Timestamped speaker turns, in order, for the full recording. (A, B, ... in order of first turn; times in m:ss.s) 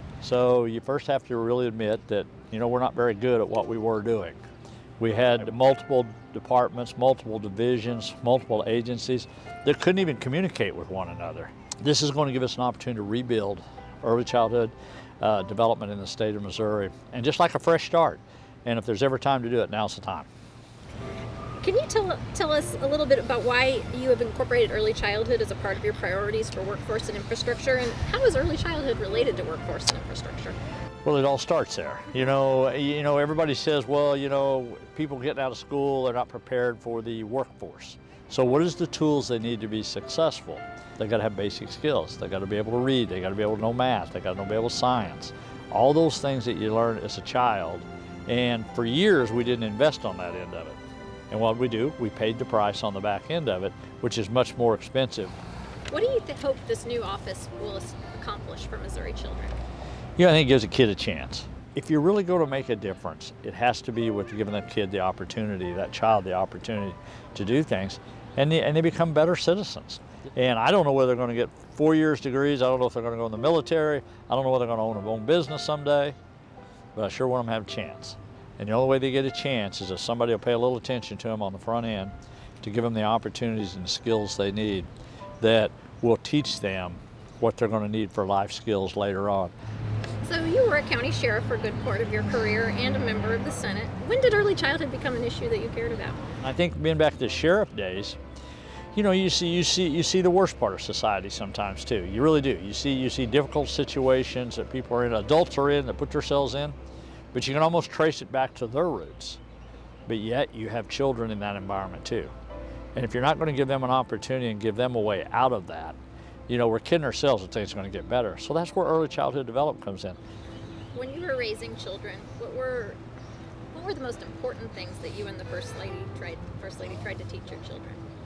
0:00.2-0:04.4 A
0:05.0-0:20.3 A
0:21.6-0:30.6 B
0:31.0-0:50.8 A
0:51.3-0:55.4 A
0:55.9-0:59.6 B
1:00.2-1:16.2 A
1:16.9-1:24.9 A
1:25.4-1:29.5 A
1:30.2-1:36.2 B
1:36.4-1:38.2 A
1:38.9-1:46.8 A
1:47.3-1:49.4 A
1:50.1-1:52.3 A
1:52.9-1:56.0 A
1:56.5-2:00.2 A
2:00.9-2:03.0 B
2:03.7-2:08.0 B